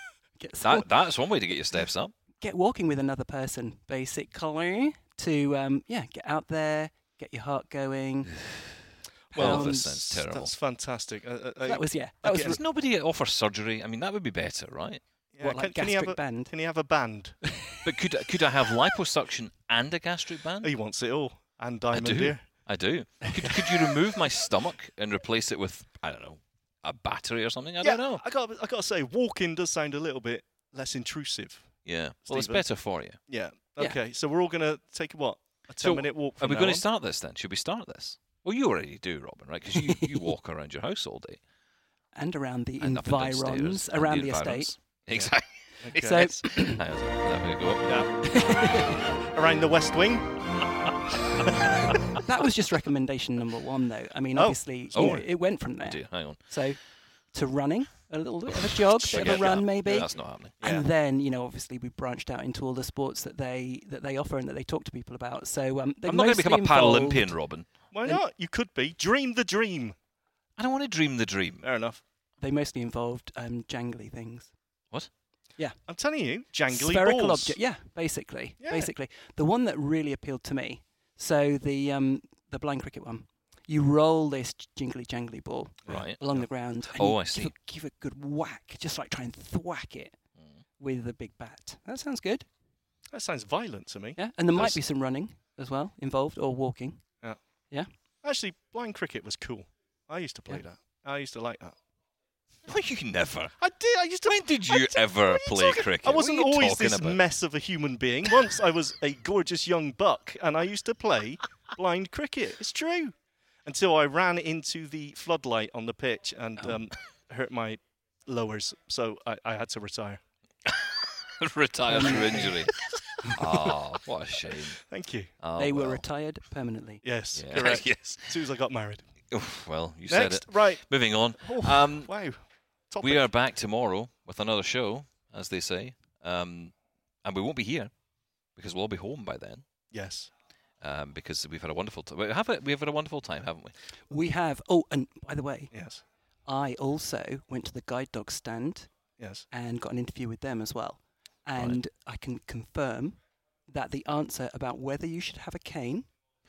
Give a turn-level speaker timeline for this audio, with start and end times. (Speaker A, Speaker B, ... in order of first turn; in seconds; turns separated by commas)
Speaker A: 0.4-0.9, Speaker B: 0.6-2.1, Speaker A: 2.4-8.3, Speaker C: 9.3-12.6, Speaker B: 9.3-10.5, Speaker A: 9.3-10.0, Speaker A: 11.6-12.6, Speaker B: 12.2-15.0, Speaker C: 15.3-17.4, Speaker A: 15.4-16.5, Speaker B: 17.8-20.7, Speaker C: 20.6-22.7, Speaker B: 21.9-28.2, Speaker C: 23.3-23.9, Speaker C: 27.8-36.8, Speaker B: 31.8-33.2, Speaker B: 35.8-41.4, Speaker A: 42.1-44.8, Speaker B: 42.8-47.9, Speaker C: 45.1-46.4, Speaker A: 45.9-46.8, Speaker C: 47.8-48.6, Speaker A: 48.2-49.0, Speaker C: 49.3-50.5, Speaker A: 52.2-56.8, Speaker C: 54.3-55.2, Speaker B: 54.9-56.4, Speaker A: 57.3-67.3, Speaker B: 58.7-60.5, Speaker C: 59.0-59.7, Speaker B: 66.0-67.7, Speaker C: 67.9-70.0, Speaker B: 70.6-71.7, Speaker C: 71.6-72.0, Speaker A: 72.4-74.5, Speaker C: 75.9-77.6, Speaker A: 76.7-90.2, Speaker C: 78.6-78.9, Speaker C: 85.8-86.5, Speaker B: 85.9-86.2, Speaker B: 87.0-87.5, Speaker A: 90.8-92.5, Speaker C: 93.1-94.2, Speaker A: 94.2-97.9, Speaker C: 98.2-101.8, Speaker B: 102.7-103.6, Speaker C: 103.6-120.2, Speaker B: 104.2-107.2, Speaker B: 120.7-122.7, Speaker A: 121.9-122.5, Speaker C: 122.0-122.5, Speaker B: 123.3-124.8, Speaker C: 124.8-125.3, Speaker B: 125.4-126.0, Speaker A: 125.6-127.0, Speaker C: 127.0-129.1, Speaker B: 127.3-128.4, Speaker B: 129.3-132.1, Speaker C: 130.1-133.3, Speaker B: 133.0-137.9, Speaker B: 138.6-139.6, Speaker C: 139.9-140.3, Speaker B: 140.8-143.7, Speaker A: 144.1-145.8, Speaker C: 145.7-146.0, Speaker A: 146.4-148.9, Speaker C: 149.2-149.4, Speaker A: 149.5-156.1, Speaker B: 151.6-151.8